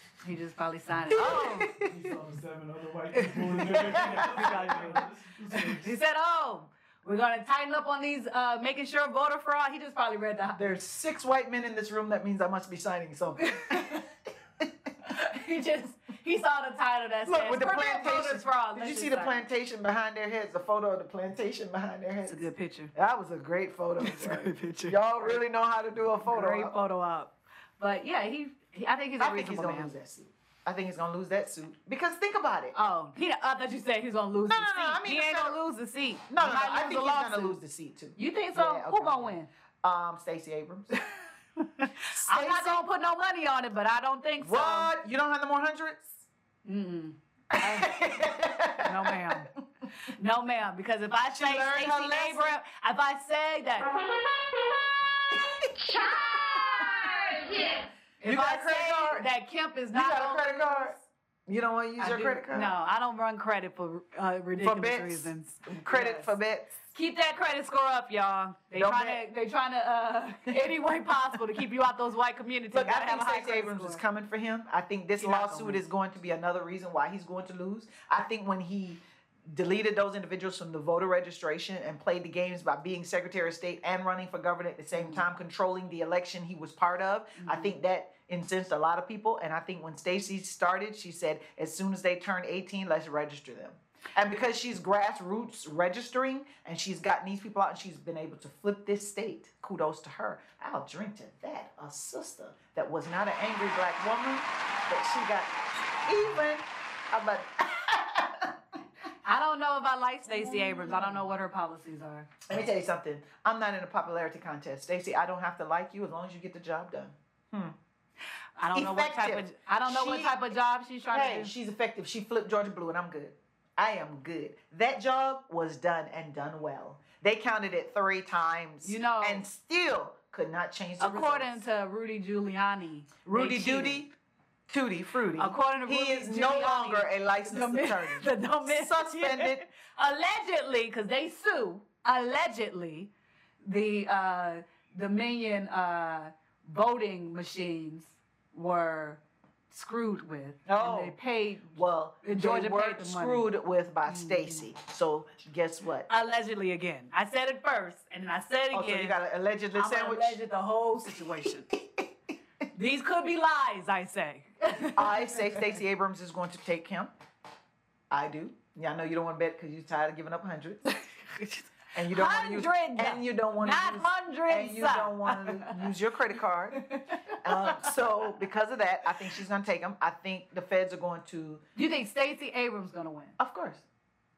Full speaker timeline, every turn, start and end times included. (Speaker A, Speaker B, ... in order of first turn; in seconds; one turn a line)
Speaker A: 0.2-1.8
Speaker B: 1.1-2.0
Speaker C: 1.8-5.9
Speaker B: 3.5-4.8
Speaker A: 3.7-10.7
Speaker B: 10.6-14.1
Speaker A: 13.5-14.0
Speaker A: 15.0-19.5
Speaker B: 17.3-26.8
Speaker A: 22.3-22.9
Speaker A: 24.0-25.4
Speaker A: 26.2-29.9
Speaker B: 29.2-32.8
Speaker A: 32.7-37.6
Speaker B: 34.5-35.6
Speaker B: 36.3-41.1
Speaker A: 38.2-39.5
Speaker A: 41.6-44.9
Speaker B: 42.1-42.9
Speaker B: 44.4-46.2
Speaker A: 46.6-48.0
Speaker B: 47.5-49.4
Speaker A: 48.8-53.9
Speaker B: 51.3-52.5
Speaker B: 55.3-57.6
Speaker A: 58.2-61.0
Speaker B: 58.2-59.3
Speaker B: 59.9-61.0
Speaker B: 61.5-62.7
Speaker A: 62.0-66.3
Speaker B: 64.6-66.8
Speaker A: 66.9-74.0
Speaker B: 68.8-69.2
Speaker B: 70.5-70.8
Speaker B: 72.7-108.6
Speaker A: 75.2-75.8
Speaker A: 85.0-85.2
Speaker A: 87.4-87.7
Speaker A: 109.2-112.3
Speaker B: 110.3-111.2
Speaker B: 112.5-117.8
Speaker A: 118.6-121.5
Speaker B: 118.7-120.5
Speaker B: 121.1-131.6
Speaker A: 128.8-129.4
Speaker A: 131.0-134.0
Speaker B: 133.2-134.1
Speaker B: 134.7-139.6
Speaker A: 135.4-143.1
Speaker A: 143.6-153.5
Speaker B: 150.7-151.2
Speaker B: 151.7-156.1
Speaker A: 154.1-154.7
Speaker A: 156.1-159.2
Speaker B: 158.7-160.4
Speaker A: 159.7-161.7
Speaker B: 161.7-162.1
Speaker A: 162.7-165.8
Speaker B: 164.9-167.1
Speaker B: 168.1-170.9
Speaker A: 171.3-175.9
Speaker B: 171.9-181.6
Speaker A: 176.7-177.9
Speaker A: 181.8-183.4
Speaker B: 183.4-183.8